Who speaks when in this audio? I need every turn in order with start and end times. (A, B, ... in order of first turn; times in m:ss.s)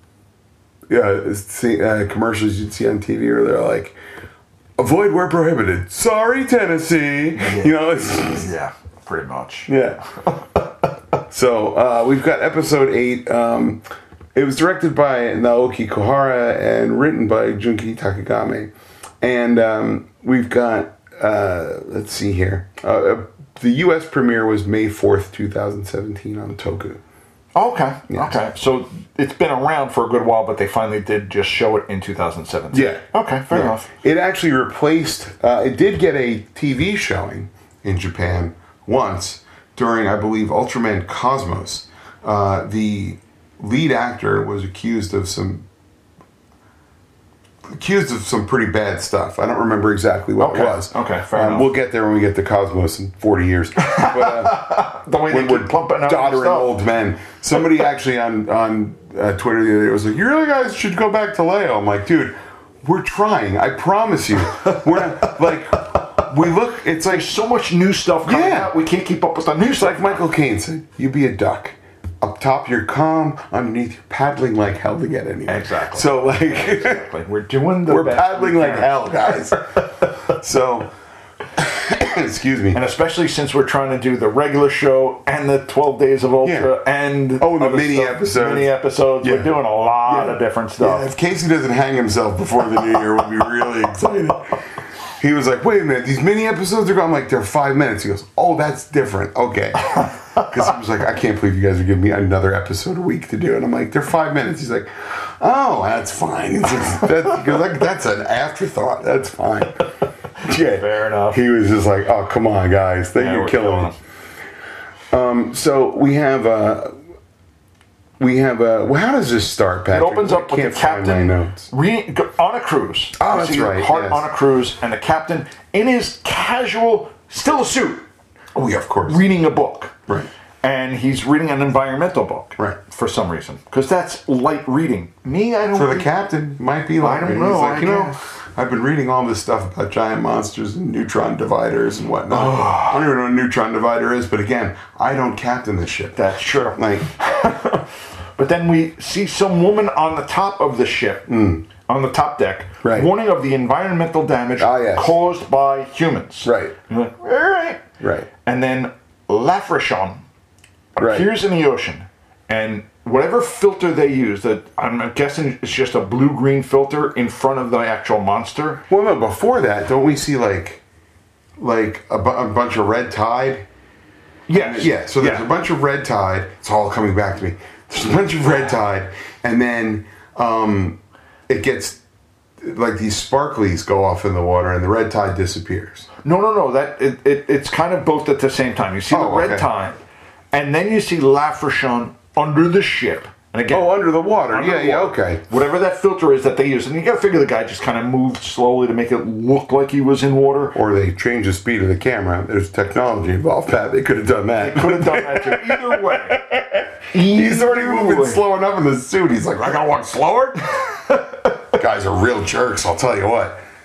0:00.9-0:04.0 A
0:04.8-0:08.5 A
0:07.4-0:09.8 B
0:09.7-0:10.0 A
0:10.3-0:10.6 B
0:11.3-0:13.8 A
0:14.4-0:27.0 A
0:27.6-0:33.9 B
0:28.1-0:28.4 A
0:32.7-0:45.7 A
0:47.7-1:07.3 A
0:50.4-0:51.7 B
0:53.8-0:56.7 B
1:07.1-1:10.3 B
1:08.2-1:08.7 A
1:09.8-1:17.0 A
1:15.5-1:20.2 B
1:17.9-1:19.7 A
1:20.2-1:20.9 A
1:21.6-1:22.8 A
1:22.7-1:31.1 B
1:26.4-1:26.7 A
1:27.4-1:29.5 A
1:30.0-1:34.6 A
1:35.2-1:49.9 A
1:50.4-1:51.4 B
1:50.4-1:54.0 A
1:53.2-1:54.0 B
1:55.1-1:57.0 A
1:58.2-2:01.7 A
1:59.9-2:08.1 B
2:03.2-2:04.3 A
2:08.6-2:09.2 A
2:09.1-2:10.0 B
2:10.6-2:16.1 B
2:15.7-2:26.2 A
2:17.0-2:18.2 B
2:22.3-2:23.1 B
2:26.2-2:37.9 B
2:26.7-2:27.1 A
2:31.3-2:31.7 A
2:32.8-2:33.1 A
2:34.6-2:35.2 A
2:36.4-2:36.8 A
2:38.0-2:38.3 A
2:38.4-2:40.2 B
2:41.0-2:48.8 B
2:41.0-2:41.3 A
2:48.9-2:50.8 A
2:51.6-2:53.7 A
2:54.5-2:55.5 B
2:54.5-3:02.0 A
3:02.6-3:06.1 A
3:06.2-3:10.0 B
3:09.1-3:09.7 A
3:10.5-3:20.8 B
3:13.7-3:15.4 A
3:20.8-3:30.7 A
3:24.6-3:26.4 B
3:27.1-3:28.4 B
3:30.8-3:31.6 B
3:31.7-3:33.6 A